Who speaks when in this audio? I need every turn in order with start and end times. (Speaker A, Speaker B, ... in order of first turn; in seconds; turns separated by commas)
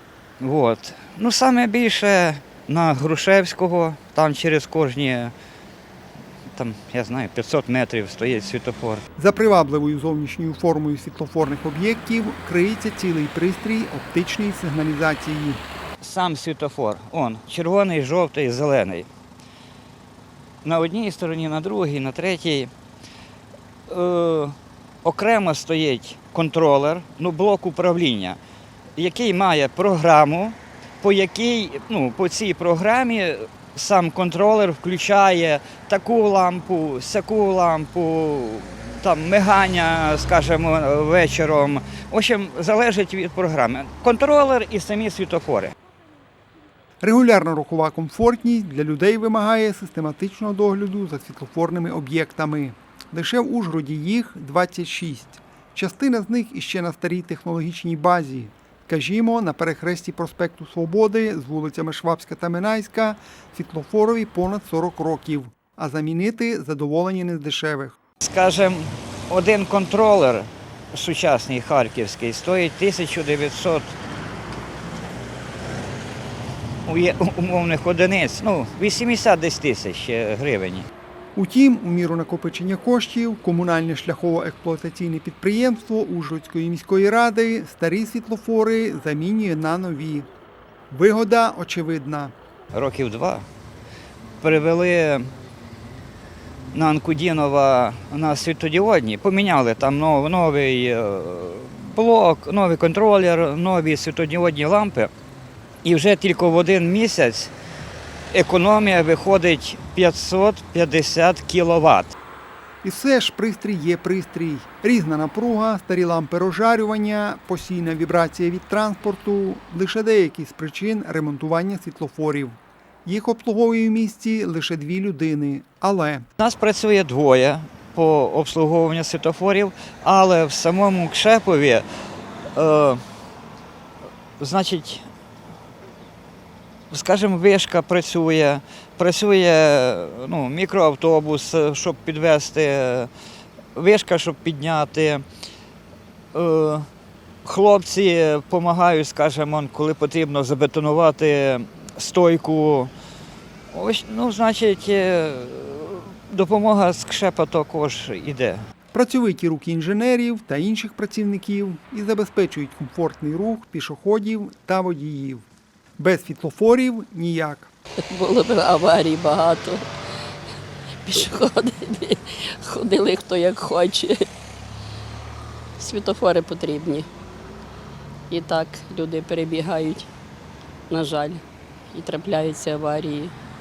Speaker A: 0.4-5.3, Speaker A: 6.6-9.0, Speaker B: 9.2-15.6, Speaker A: 16.0-19.1, Speaker A: 20.6-22.7, Speaker A: 23.9-28.4, Speaker A: 29.0-45.7, Speaker B: 47.0-68.0, Speaker A: 68.2-73.9, Speaker A: 76.9-80.9, Speaker B: 81.3-90.3, Speaker B: 90.9-92.3, Speaker A: 92.7-93.4, Speaker A: 94.4-95.3, Speaker A: 96.7-105.1, Speaker A: 105.8-107.5, Speaker A: 108.3-112.2, Speaker B: 112.8-126.2, Speaker A: 126.4-131.8, Speaker A: 132.6-133.0, Speaker A: 134.4-135.1, Speaker A: 136.9-143.1, Speaker A: 143.8-145.2, Speaker A: 146.3-146.9, Speaker A: 147.4-152.9, Speaker A: 153.7-158.6, Speaker B: 158.9-165.4, Speaker B: 166.0-167.7, Speaker C: 168.0-169.9, Speaker C: 171.1-174.3, Speaker C: 175.8-177.1, Speaker C: 178.3-180.1, Speaker C: 180.9-183.3